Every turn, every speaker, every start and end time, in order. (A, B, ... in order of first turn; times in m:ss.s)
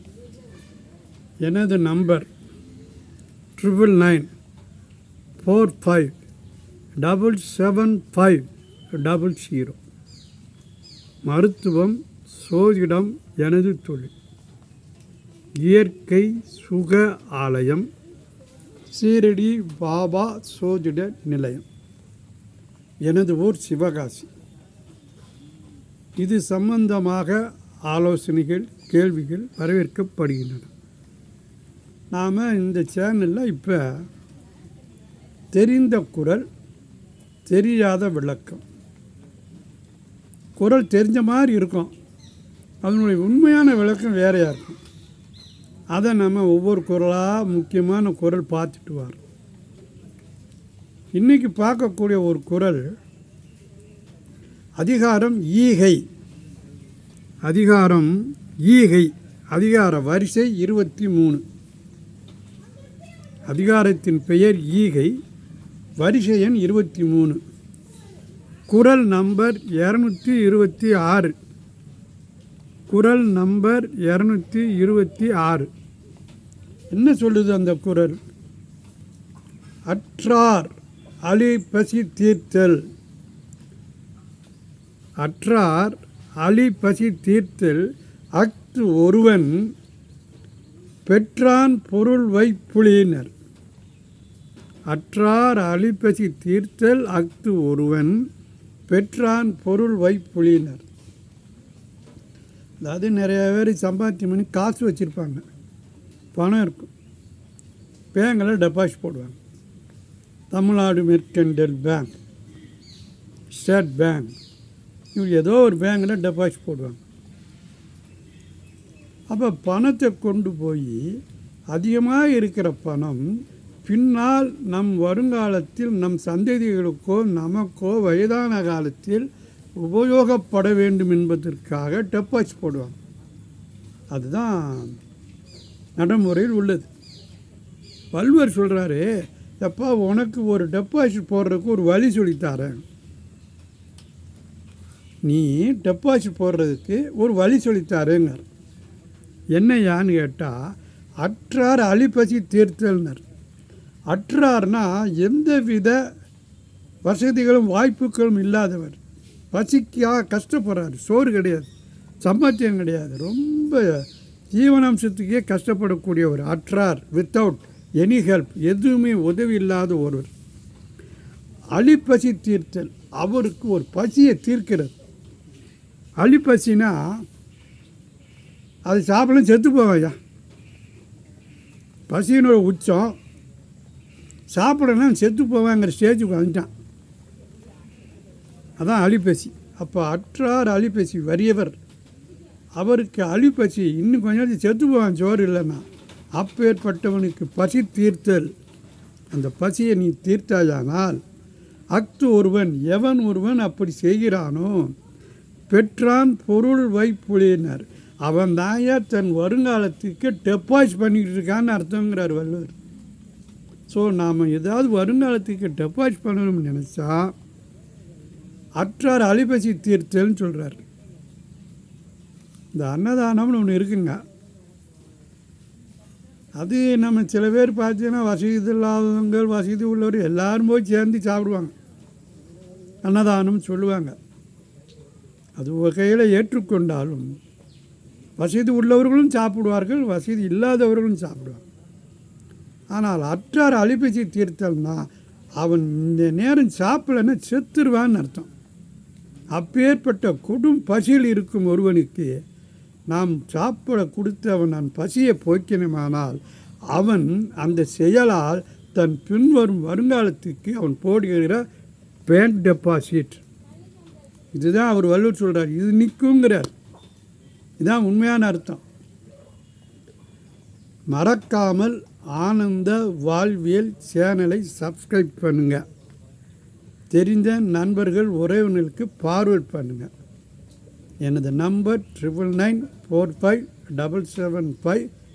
0:01.4-0:02.3 A
0:03.6-0:04.3 A
0:05.4-0:06.2 A
0:07.0-0:08.5 A
0:09.0-0:09.8 A
0:11.2-0:14.1 A
0:15.6-0:17.9 A
0:18.9-0:21.6 A
0:23.0-0:24.3 A
0:26.2-0:30.7 A
0:32.1-0:34.1 A
0:35.5-0:36.5 A
0:37.5-0:38.6 A
0:40.6-0:41.9 A
0:42.8-0:44.8 A
0:45.9-0:49.2 A
0:51.2-0:52.9 A
0:54.8-0:56.0 A
0:57.4-1:01.4 A
1:03.5-1:05.1 A
1:06.0-1:07.4 A
1:08.7-1:11.4 A
1:12.9-1:15.7 A
1:16.9-1:18.2 A
1:19.9-1:20.8 A
1:21.3-1:22.8 A
1:25.2-1:29.7 A
1:31.1-1:33.3 A
1:34.9-1:38.2 A
1:38.9-1:40.9 A
1:42.8-1:45.4 A
1:46.4-1:46.9 A
1:48.1-1:49.4 A
1:50.5-1:52.1 A
1:53.5-1:54.4 A
1:55.2-1:57.0 A
1:59.3-2:01.0 A
2:01.7-2:03.3 A
2:03.8-2:09.3 A
2:09.8-2:13.0 A
2:14.1-2:15.0 A
2:16.0-2:16.9 A
2:18.1-2:22.8 A
2:25.3-2:28.4 A
2:29.6-2:33.2 A
2:34.1-2:36.0 A
2:37.0-2:39.0 A
2:39.5-2:41.7 A
2:42.2-2:44.0 A
2:44.5-2:50.3 A
2:51.8-2:55.0 A
2:56.2-2:57.2 A
2:58.9-3:00.2 A
3:02.1-3:03.2 A
3:04.5-3:06.7 A
3:08.8-3:11.8 A
3:12.8-3:15.8 A
3:16.4-3:18.5 A
3:19.3-3:21.2 A
3:21.9-3:24.9 A
3:25.7-3:32.8 A
3:33.9-3:37.3 A
3:38.8-3:40.8 A
3:42.8-3:44.2 A
3:46.6-3:51.7 A
3:53.0-3:54.2 A
3:55.6-3:57.4 A
3:58.4-4:01.6 A
4:02.9-4:05.1 A
4:05.6-4:08.5 A
4:09.5-4:12.4 A
4:13.1-4:16.4 A
4:16.9-4:21.6 A
4:22.3-4:23.4 A
4:24.6-4:26.7 A
4:27.8-4:28.8 A
4:31.1-4:35.8 A
4:37.1-4:40.1 A
4:41.2-4:45.1 A